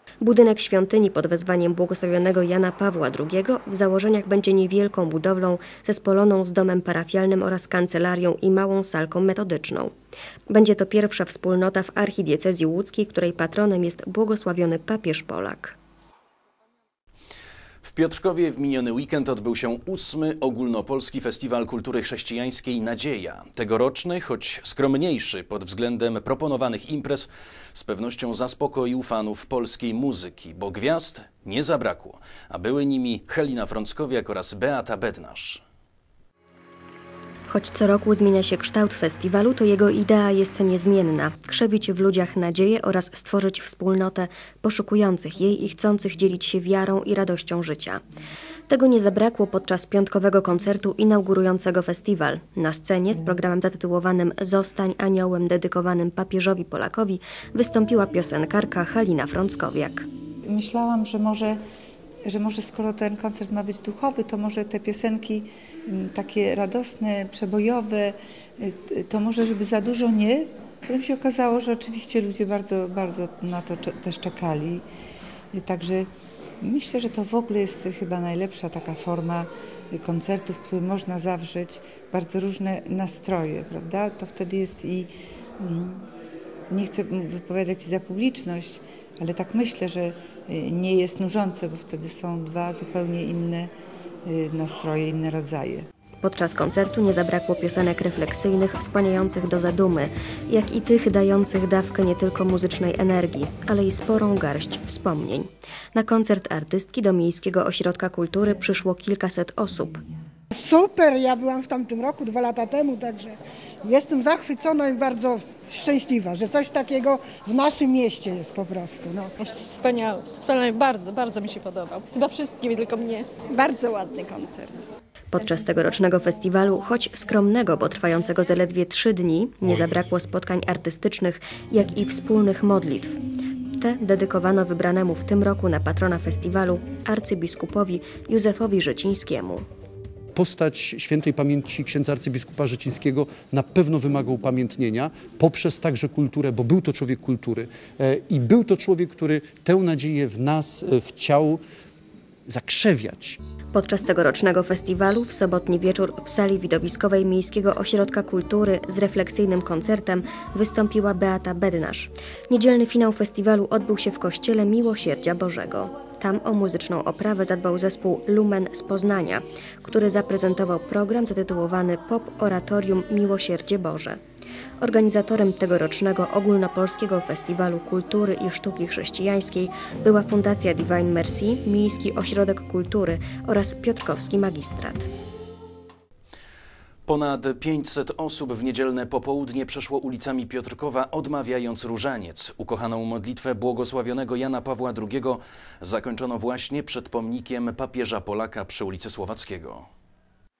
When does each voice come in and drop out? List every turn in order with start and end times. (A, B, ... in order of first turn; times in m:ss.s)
0:00.2-0:09.9 A
0:10.5-0:15.8 A
0:17.8-0:35.6 B
0:37.5-0:48.0 A
0:48.7-1:00.1 A
1:00.5-1:01.6 C
1:02.2-1:14.8 C
1:15.5-1:16.1 C
1:16.6-1:26.1 C
1:26.7-1:33.7 C
1:34.3-1:35.9 C
1:36.2-1:50.0 A
1:50.5-1:59.3 D
1:59.7-2:03.2 E
2:05.3-2:13.2 A
2:13.7-2:19.6 A
2:20.3-2:31.6 F
2:32.5-2:33.4 F
2:33.7-2:54.2 A
2:54.8-3:05.1 A
3:07.1-3:19.9 B